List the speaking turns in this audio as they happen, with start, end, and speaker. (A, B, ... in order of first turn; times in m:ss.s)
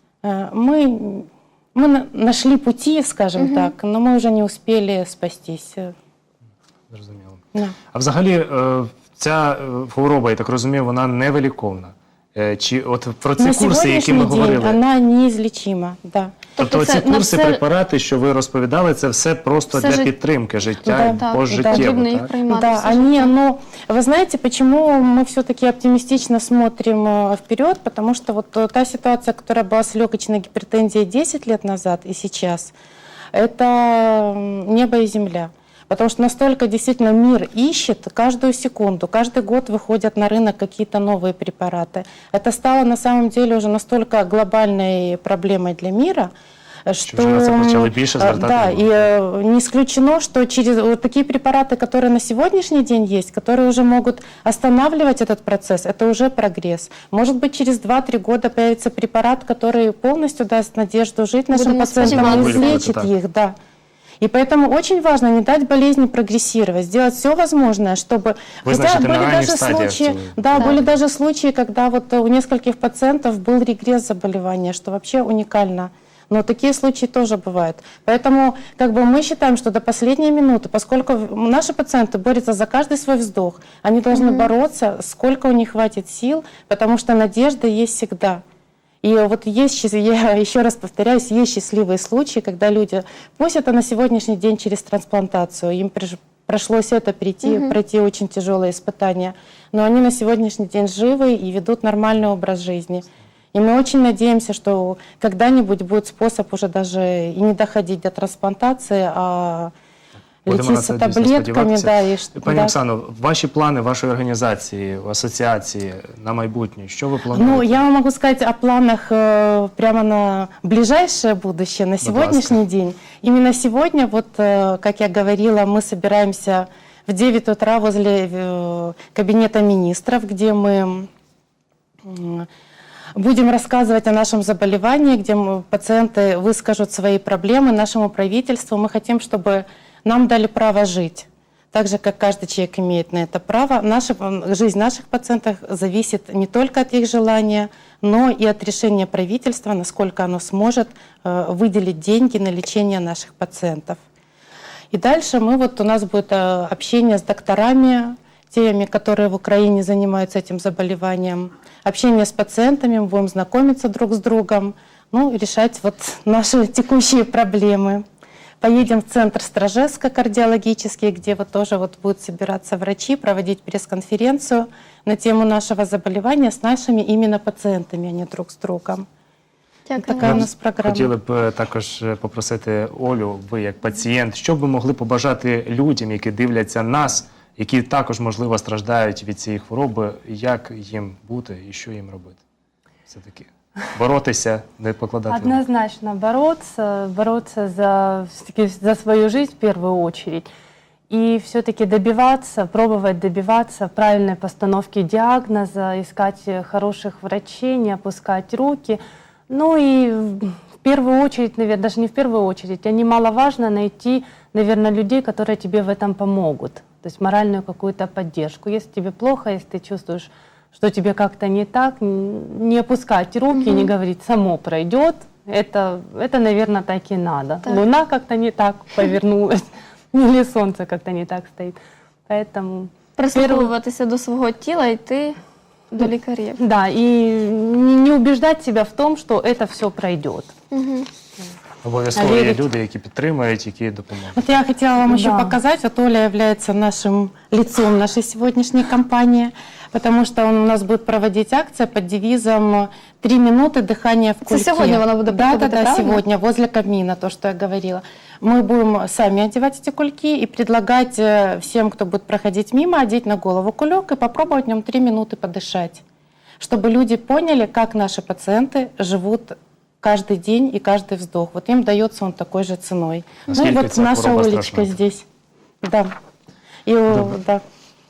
0:00.2-0:05.9 A
0:03.4-0:03.7 B
0:06.9-0:14.8 C
0:13.4-0:16.4 A
0:16.6-0:17.6 B
0:16.6-0:22.3 C
0:19.7-0:20.1 B
0:20.8-0:32.7 A
0:21.2-0:23.3 B
0:33.3-0:46.3 A
0:46.9-1:03.6 A
0:47.1-0:49.1 C
1:01.5-1:02.8 B
1:02.0-1:03.1 C
1:04.2-1:28.4 A
1:08.6-1:11.0 C
1:24.1-1:24.5 B
1:29.0-1:49.7 A
1:37.4-1:37.8 B
1:50.5-1:52.8 A
1:50.5-1:57.8 C
1:57.3-2:11.1 A
2:02.0-2:02.6 C
2:12.1-2:12.5 A
2:13.2-2:34.0 A
2:34.9-2:48.0 A
2:48.6-2:59.0 A
2:59.9-3:00.5 B
3:00.0-3:01.1 A
3:00.2-3:12.4 C
3:13.1-3:15.6 C
3:15.3-3:20.5 D
3:21.1-3:53.7 D
3:43.5-3:43.9 B
3:53.2-3:55.4 B
3:55.9-3:56.6 B
3:56.6-4:00.5 D
4:00.7-4:01.1 B
4:01.8-4:04.6 C
4:02.2-4:02.6 D
4:04.4-4:26.0 A
4:05.1-4:05.6 D
4:14.5-4:16.2 B
4:26.6-4:35.2 A
4:33.5-4:35.0 C
4:35.8-4:36.1 A
4:36.9-4:37.6 A